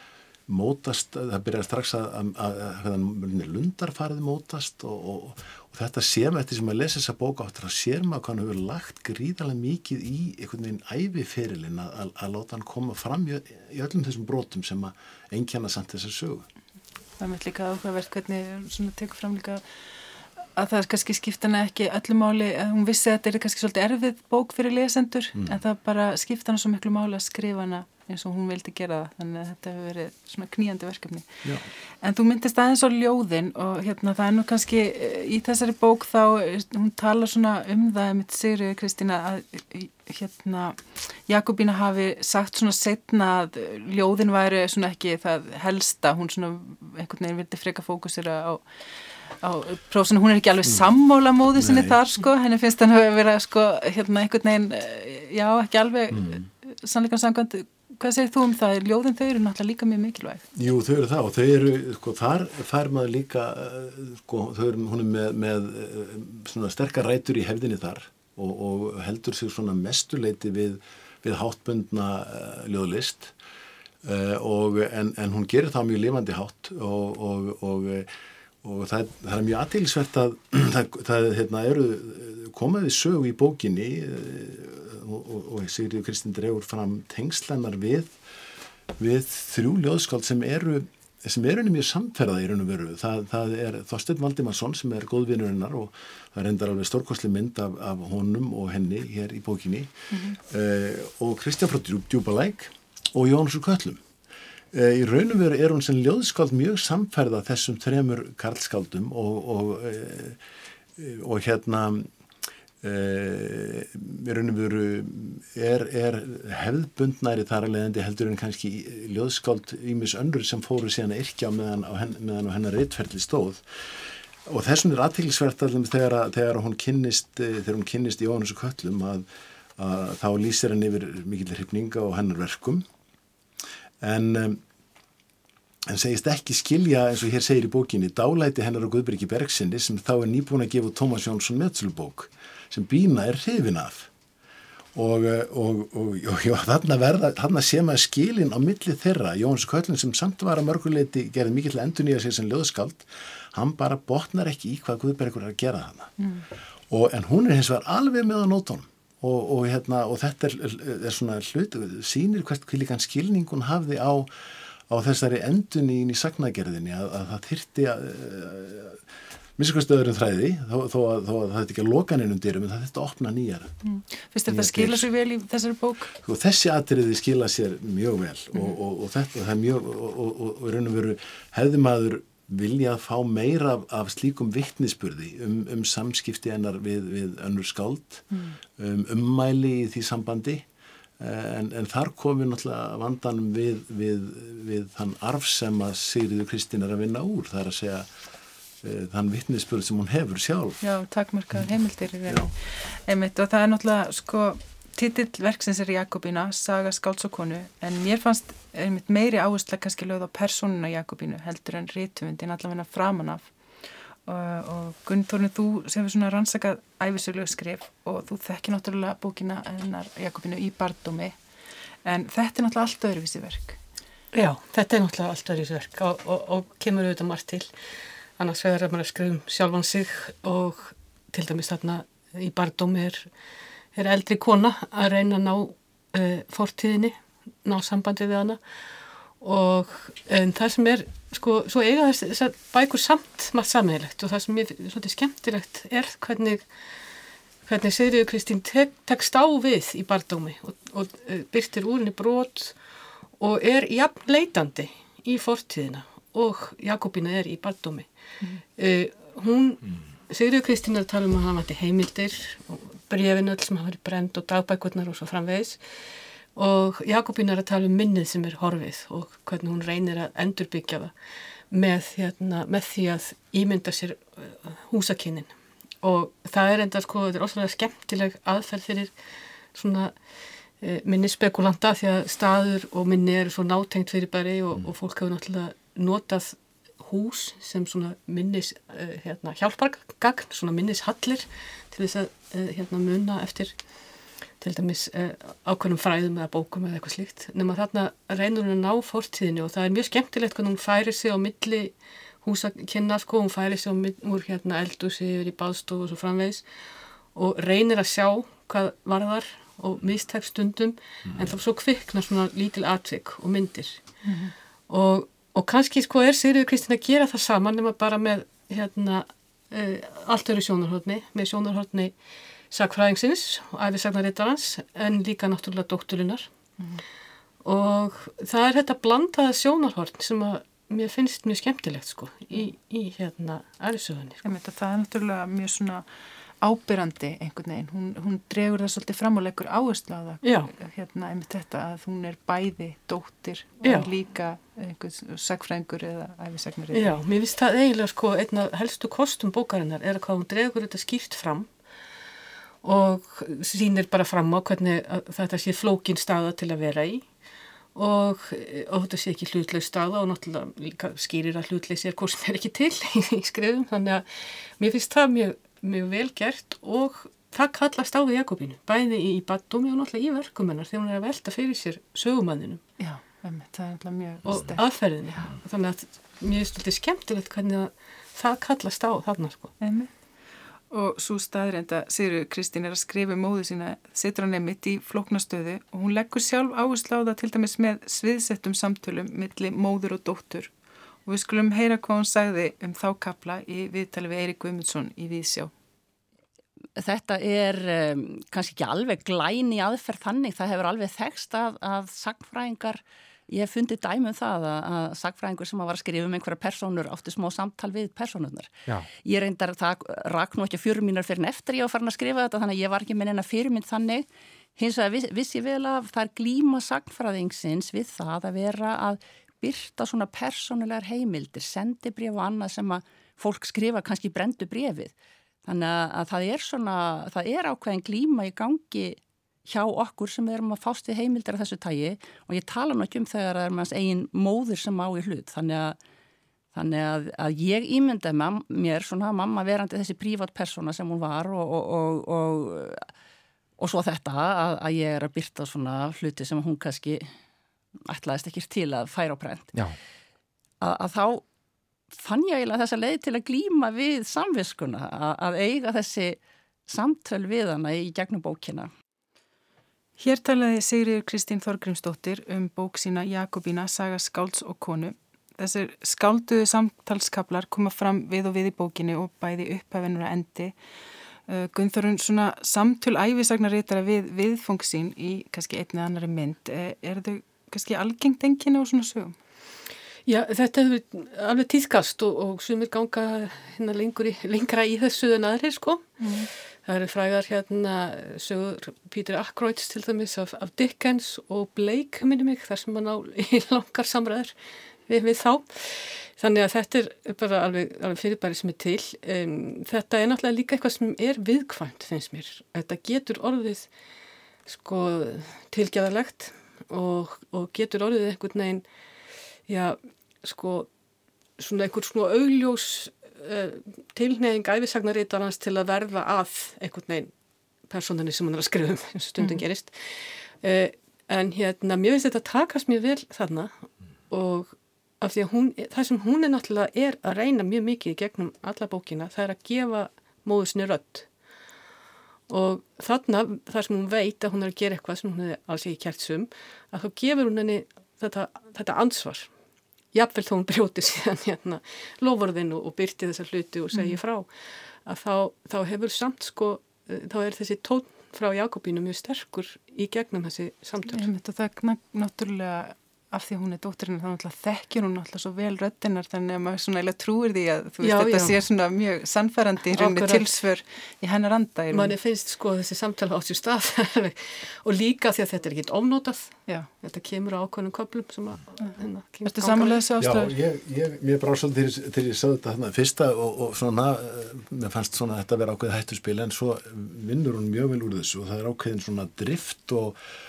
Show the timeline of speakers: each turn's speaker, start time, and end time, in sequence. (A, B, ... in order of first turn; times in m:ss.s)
0:00.5-0:16.4 A
0:17.2-0:19.6 B
0:20.5-0:31.4 B
0:31.4-0:31.7 A
0:32.0-0:48.7 B
0:49.4-1:00.4 B
0:51.5-0:52.0 A
0:56.1-0:56.4 A
1:00.5-1:13.3 A
1:14.0-1:18.1 A
1:18.6-1:28.2 A
1:29.0-1:44.0 A
1:40.1-1:40.4 B
1:44.7-1:50.4 A
1:51.0-1:52.1 A
1:52.8-2:03.6 A
2:04.4-2:09.2 A
2:09.8-2:12.8 A
2:14.0-2:14.6 A
2:15.9-2:24.1 A
2:24.9-2:36.1 A
2:36.2-2:36.5 B
2:36.9-2:49.0 A
2:49.6-2:53.7 A
2:53.8-2:56.2 B
2:54.5-2:55.1 A
2:56.2-3:10.7 A
3:08.3-3:08.6 B
3:11.2-3:18.1 A
3:18.8-3:20.8 A
3:20.8-3:33.5 B
3:34.2-3:41.4 B
3:42.0-3:43.8 B
3:44.3-3:47.7 C
3:48.4-3:53.3 C
3:53.9-3:58.6 C
3:59.4-4:06.7 C
4:07.6-4:12.8 C
4:13.4-4:18.1 C
4:18.8-4:25.8 C
4:26.5-4:31.1 C
4:31.7-4:35.5 C
4:36.0-4:39.1 C
4:39.7-4:40.1 C
4:40.8-4:53.7 C
4:54.6-5:06.6 C
5:07.3-5:14.0 C
5:14.2-5:14.5 B
5:14.9-5:22.1 C
5:22.7-5:26.5 C
5:27.6-5:34.4 C
5:34.4-5:36.0 B
5:36.6-5:47.2 B
5:40.4-5:40.7 C
5:43.8-5:44.1 C
5:46.9-5:51.7 C
5:52.8-5:57.2 C
5:57.9-6:04.2 C
6:04.8-6:12.8 C
6:13.0-6:14.8 B
6:14.4-6:19.7 C
6:19.8-6:20.1 B
6:20.9-6:30.7 B
6:31.2-6:35.7 B
6:37.0-7:05.1 D
7:05.6-7:16.0 D
7:16.7-7:23.1 D
7:23.8-7:27.3 D
7:28.0-7:29.8 D
7:30.8-7:31.4 D
7:32.1-7:38.9 D
7:40.2-7:50.8 B
7:51.5-7:59.3 B
8:00.2-8:06.2 C
8:06.2-8:06.5 B
8:06.7-8:14.5 C
8:15.1-8:23.9 C
8:24.6-8:28.8 C
8:29.7-8:30.9 C
8:31.6-8:37.3 C
8:37.9-8:43.7 C
8:44.3-8:51.3 C
8:52.5-8:59.5 C
9:00.1-9:04.5 C
9:03.9-9:04.2 B
9:05.0-9:11.3 C
9:11.1-9:22.1 B
9:18.0-9:18.6 C
9:19.9-9:20.5 C
9:21.9-9:30.0 C
9:29.4-9:30.5 B
9:30.2-9:40.2 A